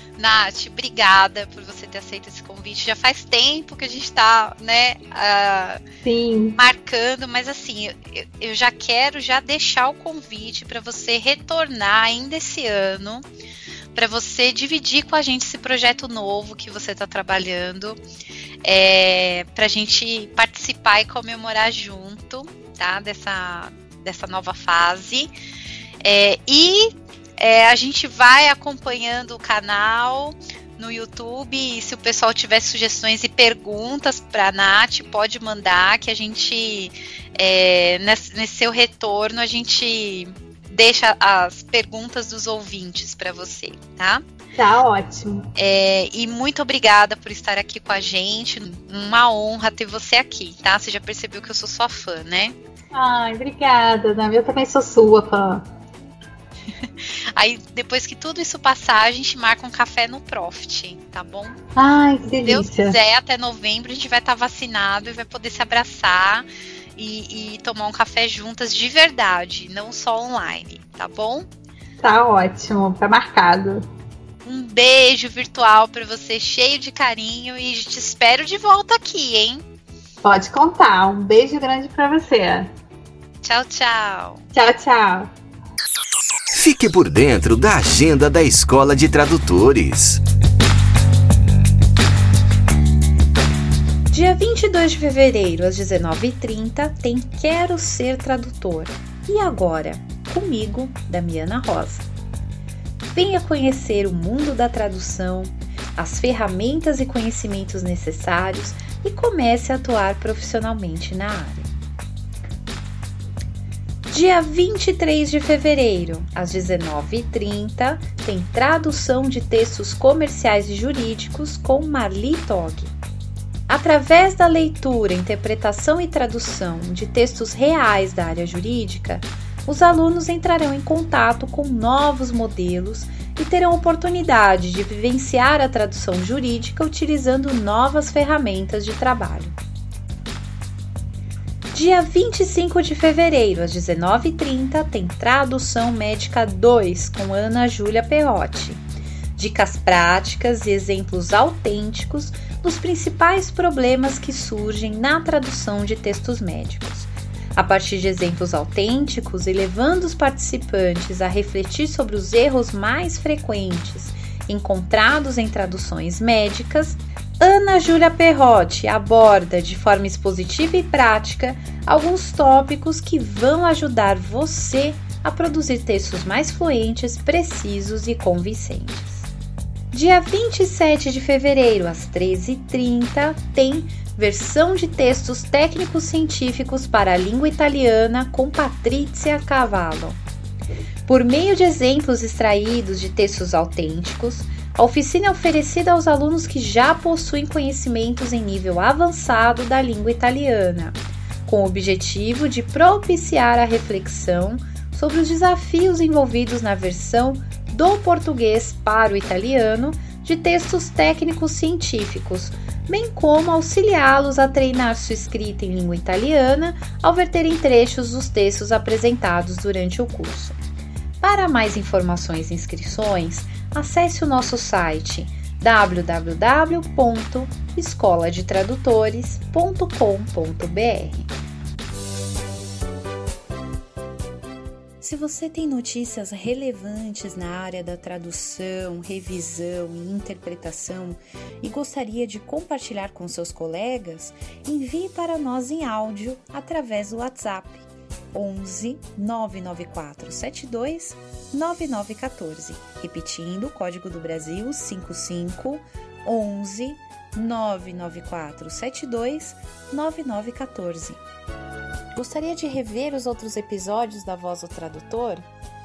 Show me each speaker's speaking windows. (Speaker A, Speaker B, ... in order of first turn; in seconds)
Speaker A: 0.2-5.8, 6.5-13.2, 13.9-18.0, 18.6-25.3, 26.0-44.2, 45.6-52.6, 57.0-61.6, 62.4-71.5, 74.5-79.6, 83.4-84.5, 94.1-102.1, 103.1-111.7, 114.1-123.0, 123.7-139.6, 141.7-148.8, 149.4-179.3, 179.9-190.2, 191.1-220.6, 221.2-231.3, 235.0-261.2, 262.1-265.5
Speaker B: 6.0-6.6, 44.6-45.5, 52.9-55.6, 61.8-63.0, 72.0-73.8, 80.2-82.7, 84.5-85.3
Speaker C: 86.5-90.2